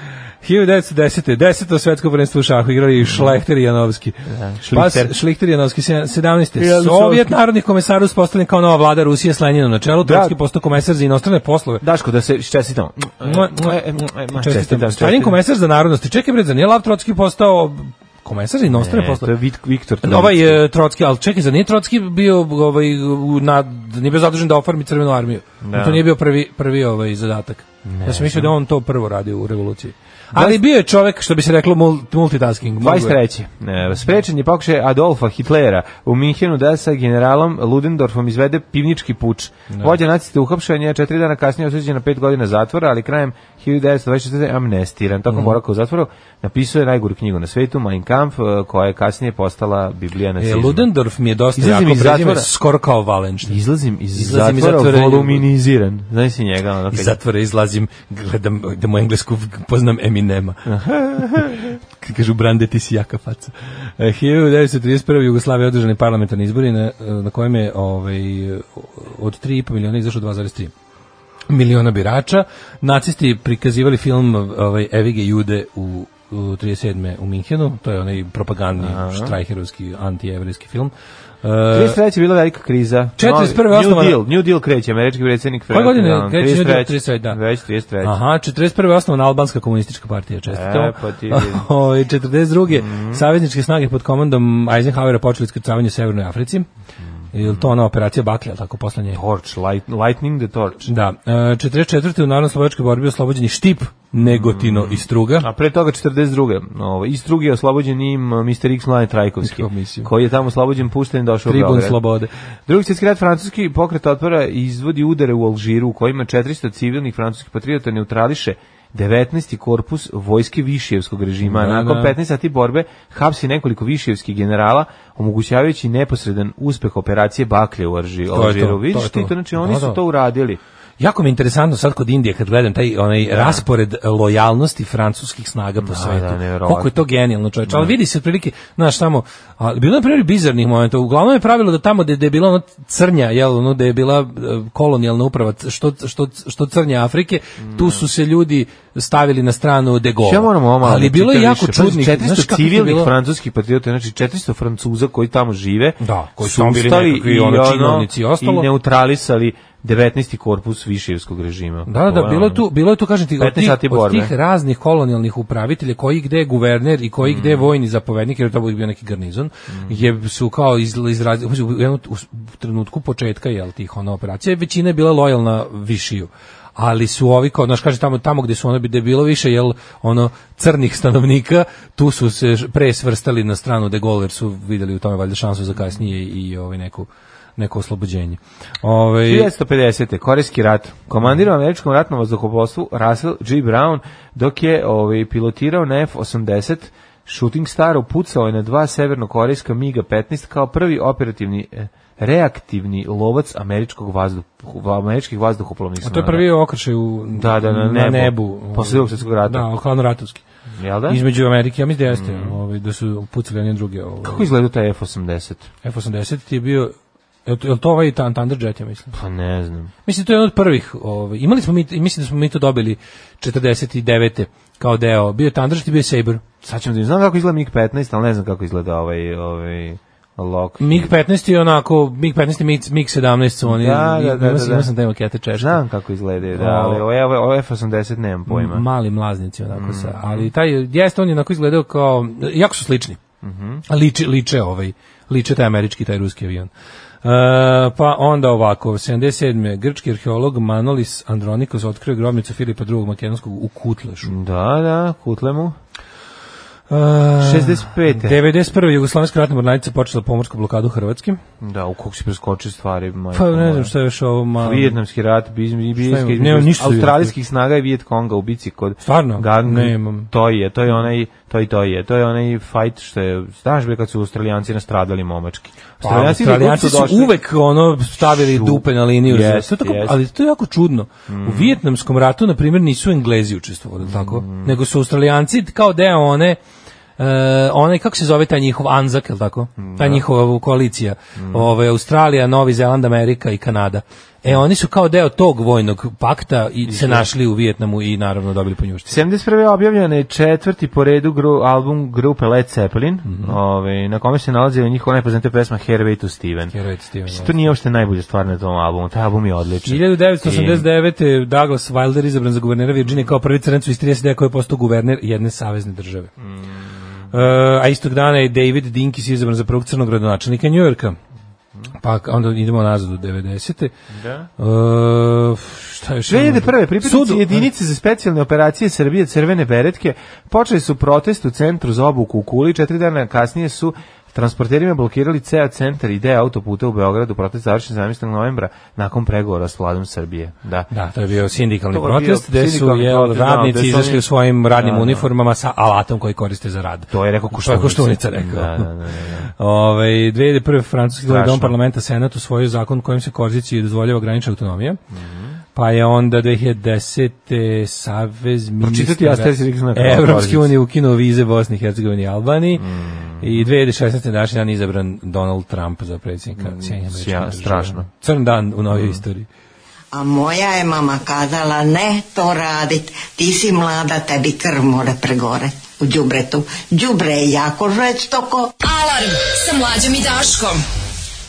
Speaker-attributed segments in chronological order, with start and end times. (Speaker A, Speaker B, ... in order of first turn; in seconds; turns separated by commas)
Speaker A: 0.4-4.2, Speaker B: 3.1-3.3, Speaker B: 4.3-5.1, Speaker A: 4.7-11.8, Speaker B: 6.6-7.3, Speaker B: 10.0-10.4, Speaker B: 11.8-15.4, Speaker A: 13.2-19.3, Speaker B: 18.7-20.6, Speaker A: 20.0-33.2, Speaker B: 25.6-26.1, Speaker B: 27.9-28.5, Speaker B: 30.3-30.6, Speaker B: 32.8-50.9, Speaker A: 39.7-40.0, Speaker A: 45.3-45.6, Speaker A: 50.4-53.6, Speaker B: 51.6-52.5, Speaker B: 53.5-57.2, Speaker A: 54.1-55.5, Speaker A: 56.9-70.7, Speaker B: 60.7-61.8, Speaker A: 71.5-80.9, Speaker B: 78.8-79.4, Speaker A: 81.4-82.0, Speaker B: 81.7-88.2, Speaker A: 83.2-84.2, Speaker A: 85.7-87.4, Speaker A: 88.0-96.7, Speaker B: 90.5-91.7, Speaker B: 92.7-93.2, Speaker A: 97.3-99.2, Speaker B: 99.1-100.8, Speaker A: 100.9-105.5, Speaker B: 104.2-112.0, Speaker A: 109.4-110.1, Speaker A: 111.5-112.3, Speaker B: 112.7-130.6, Speaker A: 121.4-122.2, Speaker A: 128.3-130.0, Speaker A: 131.0-153.1, Speaker B: 133.3-133.6, Speaker B: 135.8-137.0, Speaker B: 137.7-137.9, Speaker B: 147.7-148.0, Speaker B: 150.2-162.7, Speaker A: 156.0-158.7, Speaker A: 161.9-189.5, Speaker B: 163.4-164.3, Speaker B: 167.2-167.7, Speaker B: 169.7-170.0, Speaker B: 189.2-206.5, Speaker A: 206.0-210.4, Speaker B: 207.3-209.7, Speaker B: 210.8-211.2, Speaker A: 211.1-214.5, Speaker B: 212.1-212.6, Speaker B: 214.2-215.7, Speaker A: 215.8-216.9, Speaker A: 217.5-219.1, Speaker B: 219.1-219.9, Speaker A: 220.1-226.4, Speaker B: 226.6-231.1, Speaker A: 230.8-235.8, Speaker B: 233.7-234.9, Speaker B: 235.6-238.8, Speaker A: 236.5-237.0, Speaker A: 238.5-243.2, Speaker B: 239.7-240.5, Speaker B: 243.4-243.8, Speaker A: 243.9-246.7, Speaker A: 247.2-254.3, Speaker B: 254.2-255.8, Speaker A: 256.9-261.4, Speaker B: 257.4-258.4, Speaker B: 261.6-263.9, Speaker A: 263.3-265.0, Speaker B: 264.6-277.4, Speaker A: 266.0-267.3, Speaker A: 269.0-270.3, Speaker A: 276.0-286.6, Speaker B: 278.2-280.2, Speaker B: 281.3-281.8, Speaker B: 284.0-284.8, Speaker A: 287.2-299.2, Speaker B: 289.8-290.3, Speaker B: 291.4-291.7, Speaker B: 296.9-297.3, Speaker B: 299.1-306.8, Speaker A: 303.3-303.6, Speaker A: 306.7-307.6, Speaker B: 307.3-310.9, Speaker A: 309.9-316.3, Speaker B: 316.4-317.2, Speaker A: 317.3-321.2, Speaker A: 321.9-323.9, Speaker B: 324.1-324.5, Speaker A: 324.6-327.7, Speaker B: 326.3-340.9, Speaker A: 340.9-348.9, Speaker B: 341.9-345.3, Speaker B: 347.1-349.5, Speaker A: 349.6-355.0, Speaker B: 351.2-351.8, Speaker B: 355.1-355.6, Speaker A: 355.8-362.9, Speaker B: 358.8-360.8, Speaker B: 362.8-363.7, Speaker A: 363.4-369.5, Speaker B: 366.6-368.1, Speaker B: 368.9-369.2, Speaker C: 370.1-378.7, Speaker D: 378.8-380.9